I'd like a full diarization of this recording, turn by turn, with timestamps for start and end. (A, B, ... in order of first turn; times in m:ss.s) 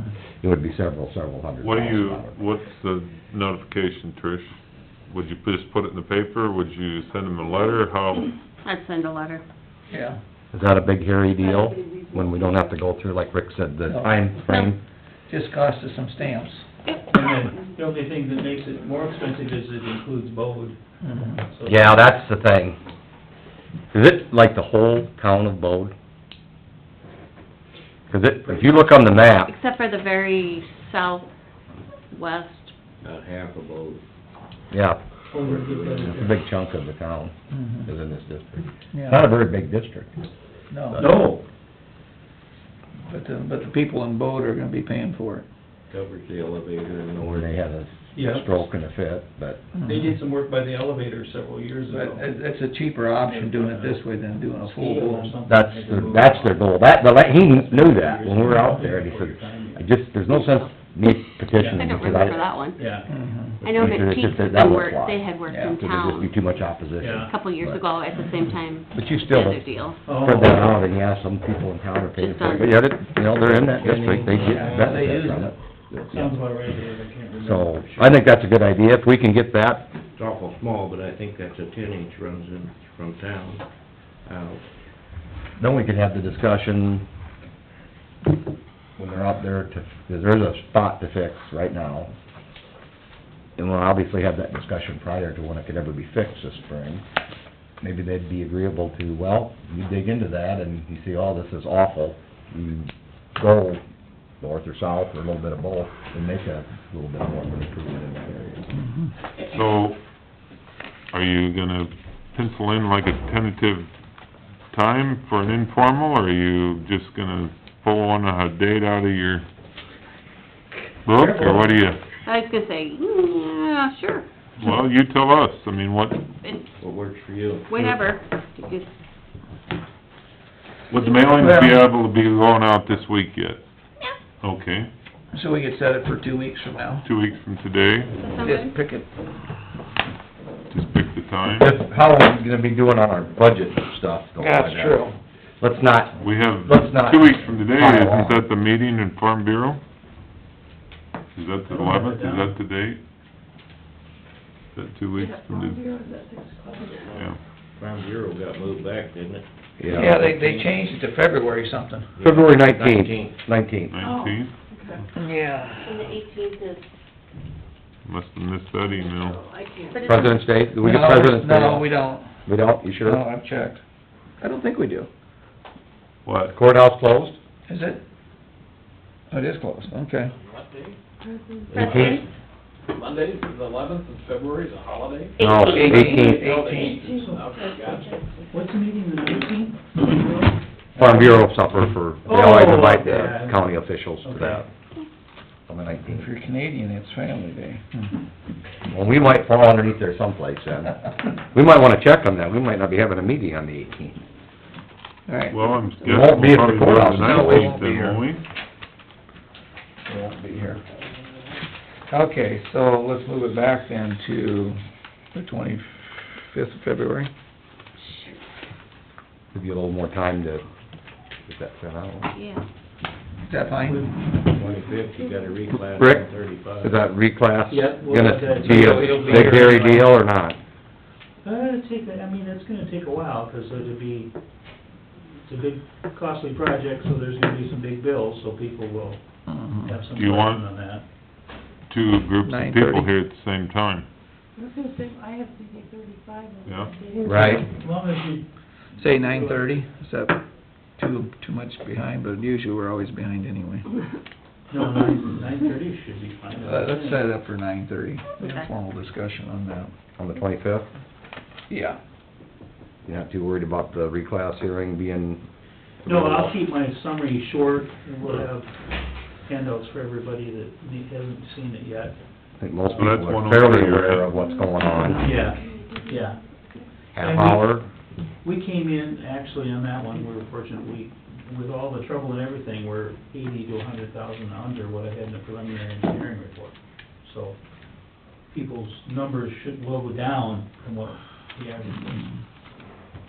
0:00.4-0:02.4 A
0:01.6-0:04.5 B
0:05.1-0:08.3 B
0:08.6-0:09.4 C
0:09.9-0:10.2 D
0:10.5-0:14.8 A
0:13.9-0:14.2 D
0:14.4-0:14.7 C
0:15.3-0:16.6 D
0:17.1-0:20.8 E
0:21.0-0:21.4 D
0:21.5-0:22.0 E
0:21.6-0:22.8 A
0:23.9-0:25.9 A
0:28.1-0:29.5 A
0:29.4-0:31.3 C
0:32.1-0:32.7 C
0:33.0-0:34.0 F
0:34.7-0:35.0 A
0:35.3-0:36.4 E
0:35.3-0:36.2 F
0:36.0-0:37.3 A
0:37.5-0:37.9 D
0:37.8-0:40.1 A
0:38.9-0:39.2 D
0:40.7-0:41.1 D
0:40.9-0:41.4 E
0:41.0-0:41.3 F
0:43.1-0:45.4 D
0:45.9-0:47.5 F
0:47.2-0:49.6 A
0:48.1-0:48.7 E
0:49.8-0:52.3 E
0:51.9-0:55.3 D
0:53.2-0:54.1 E
0:54.6-0:59.9 E
0:55.4-1:02.5 A
1:00.3-1:00.7 C
1:01.5-1:03.1 E
1:01.7-1:02.8 C
1:03.1-1:03.6 D
1:03.6-1:06.3 C
1:03.6-1:07.8 A
1:05.5-1:05.8 D
1:07.0-1:07.3 E
1:07.3-1:10.0 C
1:08.9-1:16.4 A
1:10.0-1:10.8 E
1:12.2-1:12.8 C
1:13.4-1:15.4 F
1:14.5-1:15.1 D
1:16.1-1:18.2 E
1:17.4-1:19.9 A
1:20.1-1:23.6 F
1:24.2-1:24.6 F
1:25.6-1:27.0 A
1:29.0-1:32.1 A
1:33.6-1:37.0 A
1:37.8-1:43.8 A
1:44.4-1:48.6 A
1:49.5-1:50.0 B
1:51.1-1:53.9 B
1:54.7-1:59.4 B
2:01.0-2:02.0 B
2:01.2-2:01.7 E
2:02.2-2:04.2 C
2:04.6-2:06.2 B
2:06.8-2:07.7 F
2:07.7-2:08.9 C
2:10.9-2:13.6 B
2:11.3-2:11.9 D
2:14.4-2:14.9 B
2:15.3-2:17.1 D
2:17.0-2:18.1 B
2:18.2-2:18.7 C
2:18.4-2:19.1 D
2:20.7-2:21.7 B
2:21.6-2:25.0 A
2:24.4-2:25.2 D
2:25.6-2:28.4 A
2:26.2-2:29.8 B
2:31.3-2:33.0 B
2:31.6-2:32.5 E
2:34.7-2:35.9 B
2:35.2-2:37.1 G
2:37.1-2:37.4 B
2:37.8-2:39.4 F
2:39.8-2:40.2 A
2:39.9-2:42.1 D
2:40.0-2:40.7 F
2:42.2-2:43.4 F
2:42.2-2:44.0 A
2:43.9-2:44.5 B
2:44.0-2:44.3 G
2:45.1-2:46.0 D
2:45.8-2:46.7 C
2:48.0-2:49.4 B
2:49.4-2:50.0 G
2:49.9-2:50.4 C
2:50.0-2:51.9 A
2:50.8-2:52.4 D
2:52.4-2:53.2 A
2:53.0-2:53.8 D
2:54.4-2:55.1 D
2:56.2-2:56.5 B
2:56.5-2:57.4 A
2:57.7-2:58.0 D
2:59.3-3:00.3 D
3:00.4-3:01.0 H
3:01.7-3:02.2 H
3:01.7-3:02.2 A
3:01.7-3:02.2 C
3:02.9-3:05.3 H
3:05.4-3:05.8 C
3:05.4-3:06.4 A
3:05.7-3:07.2 D
3:05.9-3:08.1 H
3:07.1-3:07.6 E
3:08.5-3:11.3 E
3:11.0-3:14.6 A
3:12.2-3:14.7 E
3:15.7-3:16.3 A
3:16.1-3:17.9 D
3:18.9-3:21.0 A
3:21.5-3:24.2 A
3:25.3-3:28.2 D
3:25.5-3:28.4 B
3:26.0-3:27.8 A
3:30.0-3:30.8 D
3:32.1-3:34.8 D
3:35.3-3:37.3 D
3:39.5-3:40.6 A
3:41.5-3:42.3 A
3:42.3-3:42.6 C
3:43.5-3:44.1 D
3:44.5-3:46.9 F
3:46.0-3:50.6 A
3:47.7-3:50.0 E
3:48.6-3:50.1 D
3:51.4-3:54.3 E
3:55.5-3:59.2 E
3:59.5-3:59.9 D
3:59.8-4:01.0 E
4:00.1-4:00.6 B
4:01.9-4:04.0 B
4:02.4-4:03.1 D
4:04.6-4:07.2 G
4:06.6-4:06.9 B
4:07.2-4:07.6 A
4:07.6-4:08.4 E
4:09.0-4:10.4 D
4:09.0-4:09.7 E
4:11.0-4:13.9 D
4:14.7-4:17.3 E
4:16.6-4:19.9 D
4:20.2-4:20.9 A
4:21.7-4:22.0 D
4:23.0-4:25.4 A
4:26.0-4:26.5 A
4:26.0-4:32.1 E
4:32.6-4:35.3 A
4:33.0-4:34.3 B
4:34.6-4:36.8 G
4:35.2-4:36.4 E
4:37.1-4:37.9 A
4:37.2-4:37.7 E
4:38.4-4:47.6 E
4:48.5-4:52.3 E